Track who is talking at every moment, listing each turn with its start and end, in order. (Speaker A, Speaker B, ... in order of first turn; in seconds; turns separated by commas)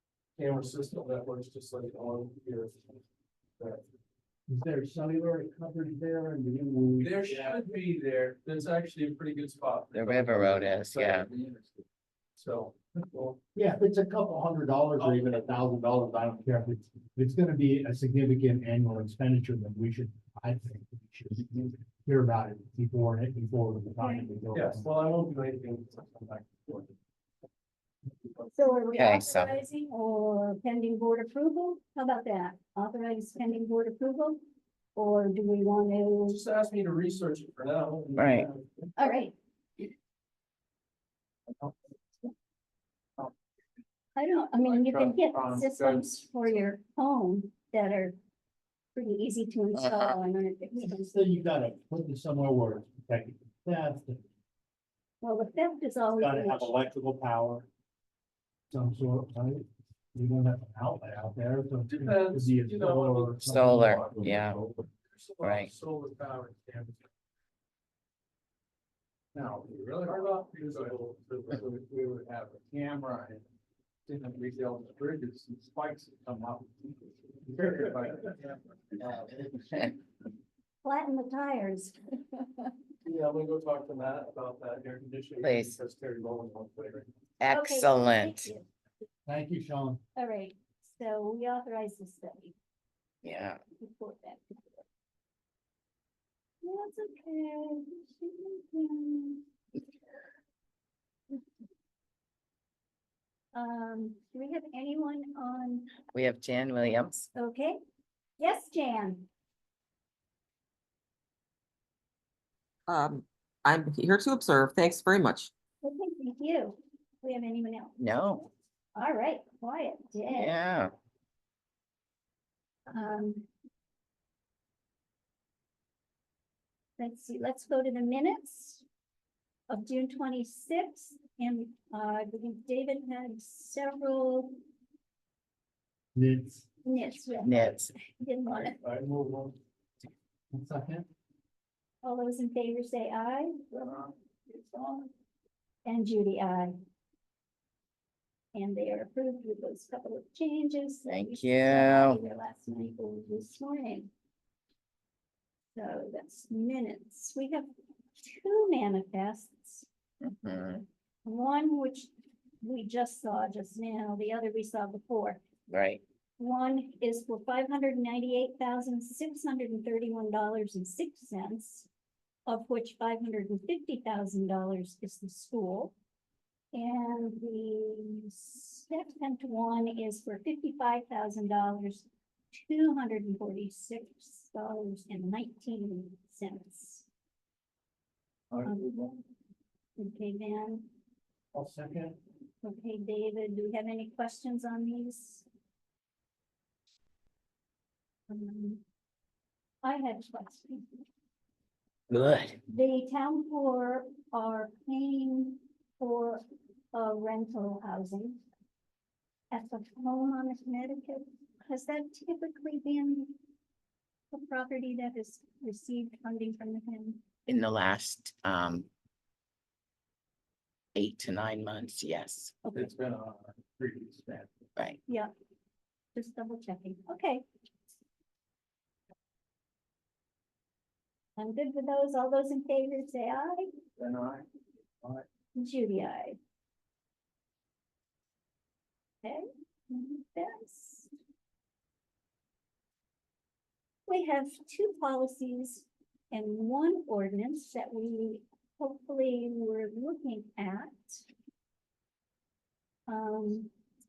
Speaker A: 0.4-2.9, Speaker A: 3.6-3.8, Speaker B: 4.5-7.6, Speaker A: 7.0-11.8, Speaker C: 9.9-11.3, Speaker A: 12.3-13.4, Speaker B: 13.5-24.9, Speaker A: 15.0-15.4, Speaker D: 24.0-24.3, Speaker A: 24.5-26.9, Speaker D: 28.5-34.4, Speaker C: 28.9-29.5, Speaker D: 35.0-36.4, Speaker A: 36.3-38.8, Speaker C: 38.1-38.5, Speaker D: 39.0-39.3, Speaker D: 44.1-48.1, Speaker A: 44.6-46.2, Speaker D: 48.9-51.2, Speaker C: 49.8-50.1, Speaker B: 50.8-54.2, Speaker D: 55.2-56.8, Speaker B: 56.1-57.6, Speaker B: 58.7-64.5, Speaker A: 61.9-67.0, Speaker C: 63.4-64.6, Speaker C: 65.4-65.7, Speaker B: 69.3-71.8, Speaker A: 70.0-73.4, Speaker B: 72.8-73.3, Speaker A: 74.1-79.1, Speaker D: 80.8-82.7, Speaker A: 83.0-87.1, Speaker C: 85.4-85.7, Speaker C: 87.4-88.5, Speaker D: 87.5-88.7, Speaker B: 89.2-90.0, Speaker D: 90.2-92.5, Speaker C: 93.2-93.6, Speaker D: 93.8-94.8, Speaker D: 96.6-99.4, Speaker D: 103.5-105.9, Speaker C: 106.1-107.3, Speaker D: 107.3-107.8, Speaker D: 108.4-109.3, Speaker E: 112.9-115.5, Speaker D: 115.8-118.0, Speaker C: 118.0-118.5, Speaker D: 118.9-120.5, Speaker C: 120.3-120.9, Speaker D: 122.9-123.5, Speaker D: 127.0-128.8, Speaker D: 129.7-134.5, Speaker B: 136.1-136.7, Speaker D: 136.8-138.8, Speaker C: 137.4-137.9, Speaker A: 138.8-139.6, Speaker B: 140.5-141.1, Speaker D: 142.0-145.1, Speaker D: 145.8-146.7, Speaker D: 148.5-154.1, Speaker C: 151.1-152.2, Speaker D: 155.7-159.9, Speaker C: 160.2-160.8, Speaker D: 161.2-165.4, Speaker C: 165.7-166.0, Speaker D: 166.4-171.9, Speaker D: 172.5-175.9, Speaker D: 176.7-187.1, Speaker B: 188.5-189.0, Speaker D: 188.6-189.1, Speaker D: 190.0-190.9, Speaker B: 191.5-192.2, Speaker D: 192.6-195.4, Speaker D: 198.3-198.8, Speaker D: 199.8-200.9, Speaker C: 202.1-202.6, Speaker D: 202.7-206.4, Speaker D: 206.9-208.4, Speaker D: 209.5-213.3, Speaker D: 214.3-217.2, Speaker C: 217.5-218.9, Speaker C: 220.9-222.6, Speaker A: 222.7-224.5, Speaker D: 226.1-227.4, Speaker D: 231.4-233.7, Speaker A: 234.0-234.4, Speaker D: 235.5-236.4, Speaker D: 239.2-241.1, Speaker D: 244.1-251.2, Speaker D: 253.1-253.7